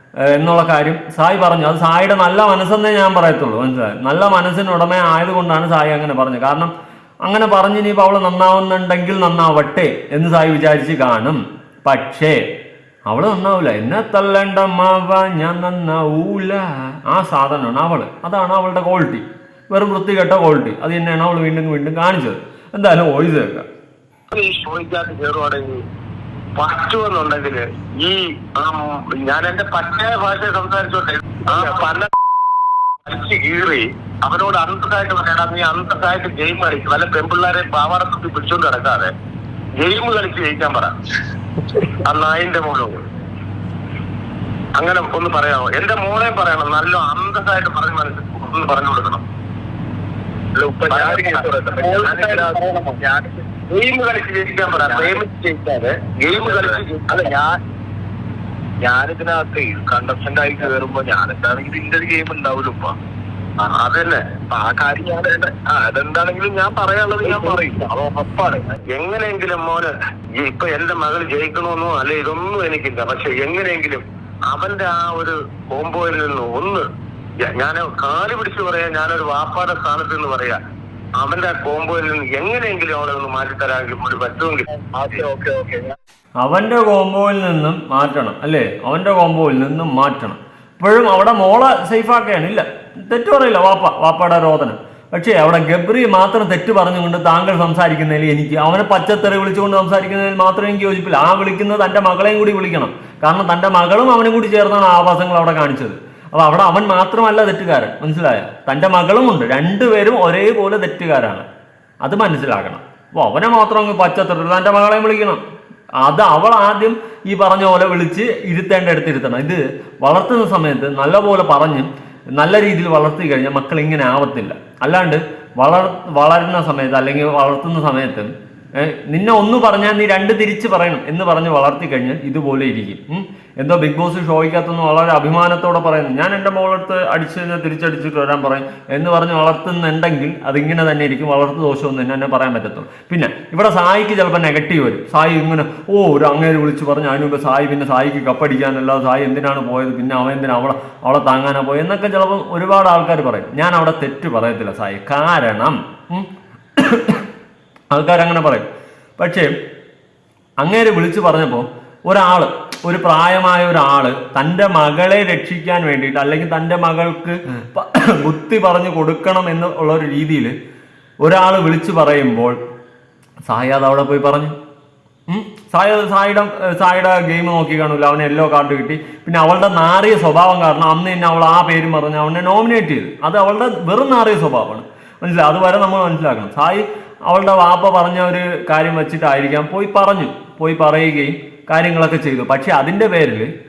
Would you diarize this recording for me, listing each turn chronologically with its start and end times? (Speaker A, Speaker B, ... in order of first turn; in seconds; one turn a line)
Speaker A: 0.2-6.7
Speaker A: 7.2-12.4
Speaker A: 13.1-23.7
Speaker B: 24.3-25.8
Speaker B: 26.6-32.1
Speaker B: 33.0-39.1
Speaker B: 39.8-40.9
Speaker B: 41.8-43.0
Speaker B: 44.8-49.2
Speaker C: 50.5-53.4
Speaker B: 50.9-52.5
Speaker B: 53.7-57.3
Speaker C: 54.7-55.2
Speaker C: 56.3-57.6
Speaker C: 58.8-63.0
Speaker B: 63.6-64.3
Speaker C: 64.5-68.8
Speaker B: 67.2-67.6
Speaker B: 68.9-76.9
Speaker B: 77.4-80.6
Speaker B: 81.2-85.3
Speaker C: 84.9-86.0
Speaker A: 86.4-111.5
Speaker A: 112.0-115.4
Speaker A: 116.0-157.3
Speaker A: 157.9-158.7
Speaker A: 159.2-159.5
Speaker A: 160.6-170.5
Speaker A: 171.2-172.6
Speaker A: 173.5-174.6
Speaker A: 175.3-193.5